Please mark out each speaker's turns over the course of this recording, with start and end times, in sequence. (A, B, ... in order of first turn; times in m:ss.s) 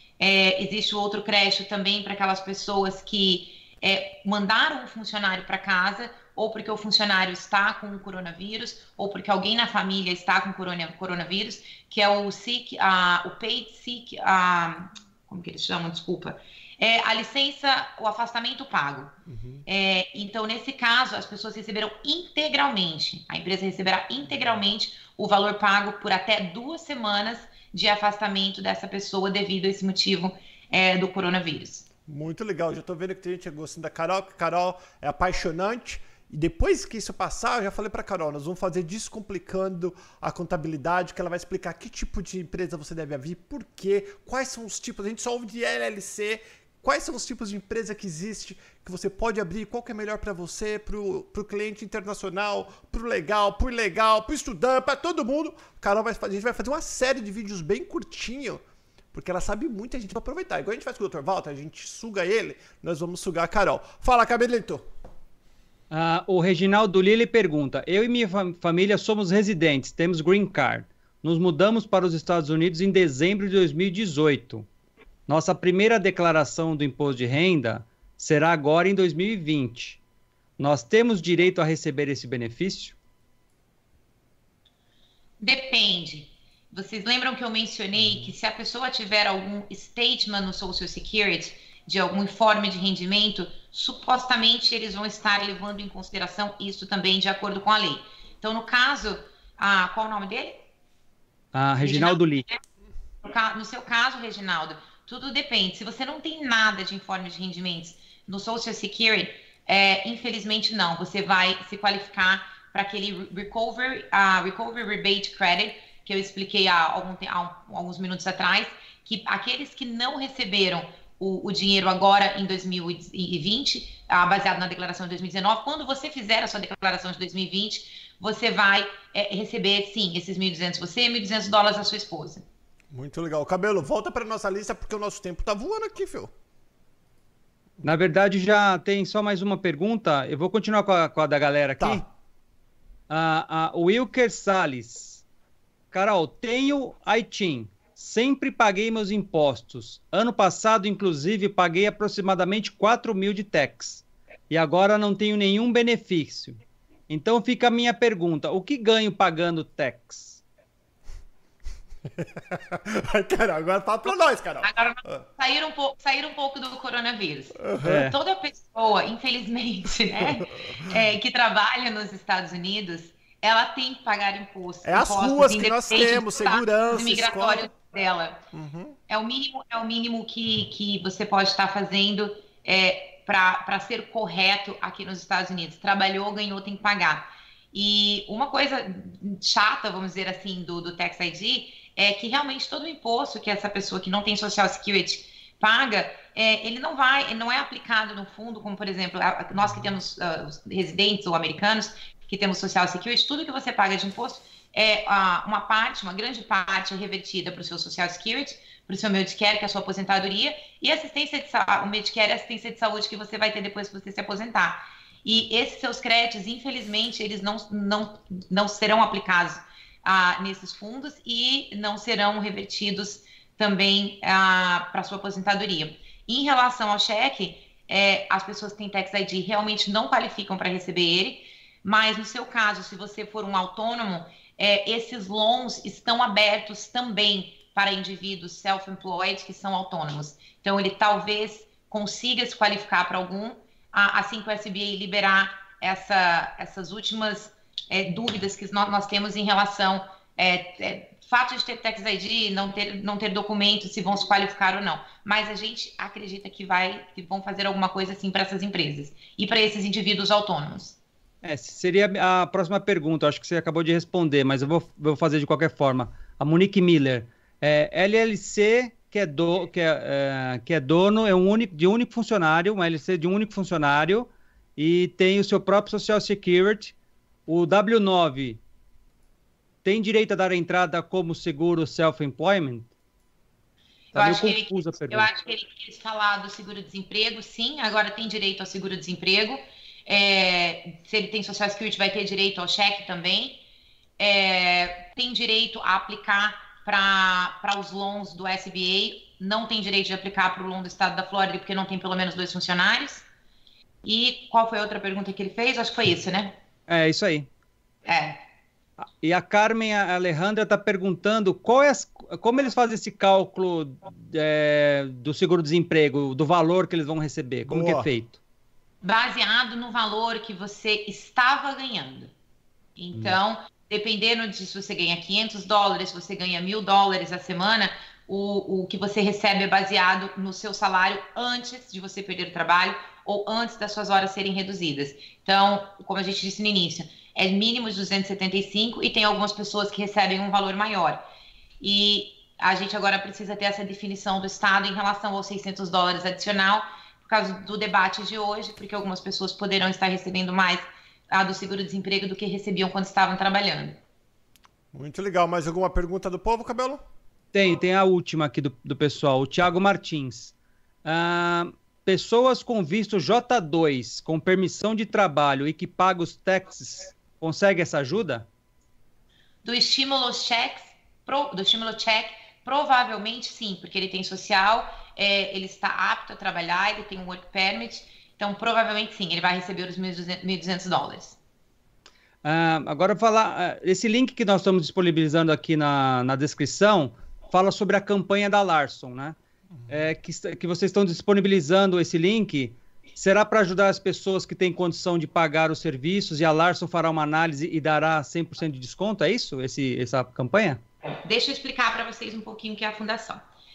0:00.2-0:31.9 A
0:19.2-0:19.6 B
0:32.0-0:58.6 B
0:59.1-1:04.8 B
1:05.9-1:14.7 C
1:15.3-1:20.0 C
1:20.6-1:23.0 C
1:25.4-1:40.6 A
1:28.0-1:28.3 B
1:41.5-1:42.4 C
1:41.8-1:42.6 A
1:43.2-2:12.4 A
2:12.9-2:16.3 B
2:17.8-2:22.0 C
2:21.8-2:22.0 B
2:23.1-2:25.2 C
2:25.9-2:40.4 C
2:42.2-2:45.2 B
2:44.6-2:58.4 A
2:47.6-2:48.1 B
2:47.8-2:48.1 C
2:54.8-2:57.7 B
2:58.5-2:59.0 B
2:59.1-4:21.0 A
3:19.6-3:19.9 B
4:21.4-4:36.9 C
4:37.5-4:38.6 C
4:39.8-4:42.9 C
4:44.1-4:53.6 A
4:44.1-4:45.3 C
4:54.2-5:03.2 A
5:04.0-5:06.6 A
5:06.9-5:07.5 C
5:08.0-5:08.4 A
5:09.0-5:18.4 C
5:17.6-5:18.1 B
5:19.0-5:22.3 A
5:23.0-5:41.2 A
5:41.8-5:54.0 A
5:54.9-5:57.0 B
5:57.5-6:08.5 C
6:09.6-6:21.4 A
6:22.4-6:29.4 C
6:29.9-6:40.8 C
6:41.2-6:43.4 A